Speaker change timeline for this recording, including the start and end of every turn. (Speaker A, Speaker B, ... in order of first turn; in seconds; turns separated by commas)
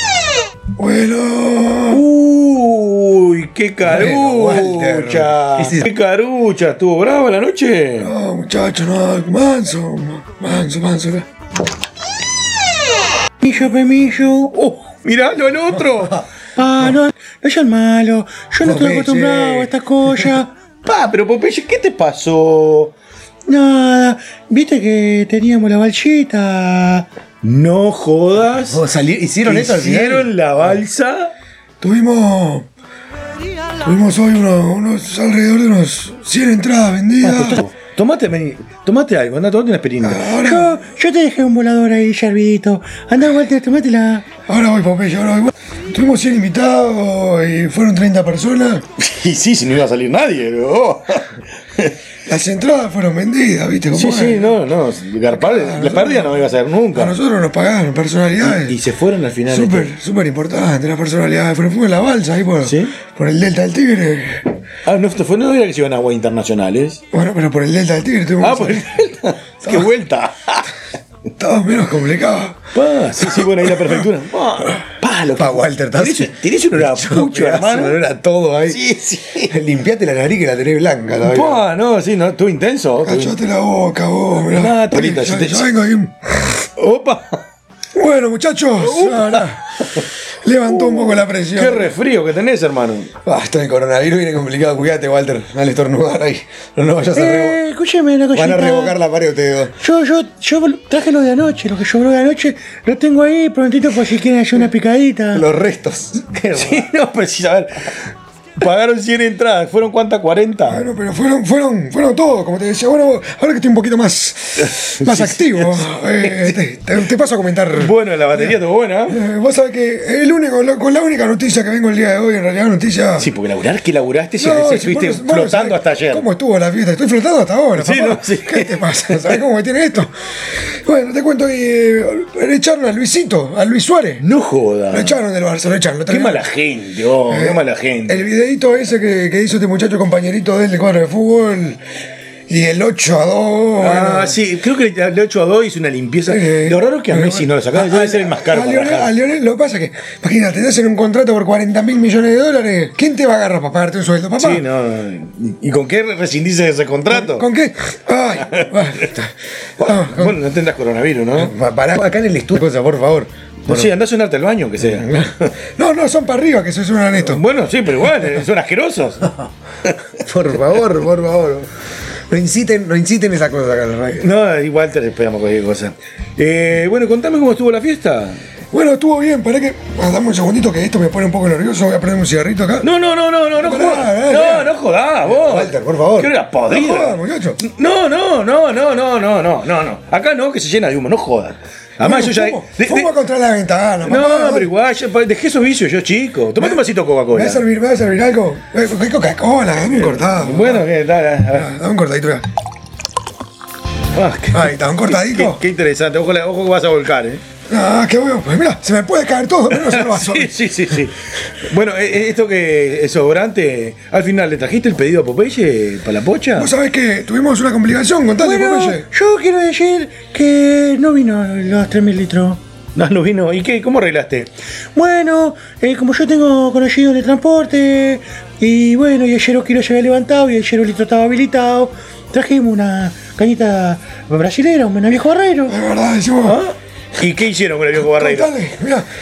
Speaker A: 0.8-2.0, Speaker B: 1.9-8.2, Speaker A: 3.8-5.9, Speaker A: 8.0-11.2, Speaker C: 13.4-14.8, Speaker B: 14.8-16.2, Speaker C: 16.6-20.5, Speaker A: 18.6-19.7, Speaker B: 20.8-22.9, Speaker C: 23.5-27.1, Speaker B: 27.4-28.8, Speaker A: 28.7-30.3, Speaker B: 29.4-31.3, Speaker A: 31.8-32.6, Speaker A: 33.9-37.6, Speaker B: 37.2-40.3, Speaker A: 40.1-40.7, Speaker C: 40.4-44.3, Speaker A: 44.5-48.8, Speaker B: 49.0-51.9, Speaker A: 52.3-54.4, Speaker B: 53.9-57.1, Speaker A: 55.5-56.3, Speaker A: 57.0-58.7, Speaker B: 58.4-59.9, Speaker A: 59.5-64.5, Speaker B: 62.6-63.0, Speaker B: 64.8-67.0, Speaker A: 67.1-68.9, Speaker B: 68.4-70.7, Speaker A: 71.4-72.6, Speaker B: 72.7-78.0, Speaker A: 75.4-78.8, Speaker B: 78.7-79.5, Speaker A: 79.5-81.6, Speaker B: 81.2-83.4, Speaker A: 83.1-86.3, Speaker B: 84.5-85.7, Speaker B: 86.8-87.4, Speaker A: 88.0-89.6, Speaker B: 88.8-90.1, Speaker A: 90.4-91.9, Speaker B: 90.7-93.1, Speaker A: 93.2-97.6, Speaker C: 97.1-99.0, Speaker A: 98.3-99.8, Speaker C: 99.8-105.4, Speaker A: 105.3-106.8, Speaker B: 106.3-110.8, Speaker A: 110.7-114.5, Speaker B: 114.6-116.6, Speaker A: 115.0-117.9, Speaker B: 117.7-119.2, Speaker A: 119.2-123.2, Speaker B: 123.2-126.3, Speaker A: 124.4-130.1, Speaker B: 127.8-129.4, Speaker A: 130.8-134.2, Speaker B: 134.2-135.2, Speaker A: 134.9-136.4, Speaker B: 136.1-138.3, Speaker A: 138.1-141.8, Speaker A: 142.5-144.3, Speaker B: 143.8-149.1, Speaker A: 146.3-154.6, Speaker B: 154.4-157.5, Speaker A: 157.1-159.2, Speaker B: 158.4-159.2, Speaker B: 159.8-161.5, Speaker A: 159.8-160.3, Speaker A: 161.4-163.9, Speaker B: 163.7-165.4, Speaker A: 164.9-167.4, Speaker B: 167.1-169.9, Speaker A: 170.2-171.7, Speaker A: 172.3-174.3, Speaker B: 174.2-178.4, Speaker A: 178.7-182.9, Speaker B: 182.8-193.1, Speaker A: 183.6-184.7, Speaker A: 185.3-187.6, Speaker A: 192.0-194.7, Speaker B: 194.0-197.6, Speaker A: 197.3-200.8, Speaker B: 199.9-201.8, Speaker A: 201.6-202.4, Speaker B: 204.2-207.4, Speaker A: 204.5-205.6, Speaker A: 207.7-210.5, Speaker B: 209.7-216.7, Speaker A: 216.6-219.0, Speaker C: 218.4-222.6, Speaker B: 223.0-224.5, Speaker C: 225.0-235.8, Speaker A: 235.7-236.6, Speaker B: 236.4-238.7, Speaker A: 238.2-239.0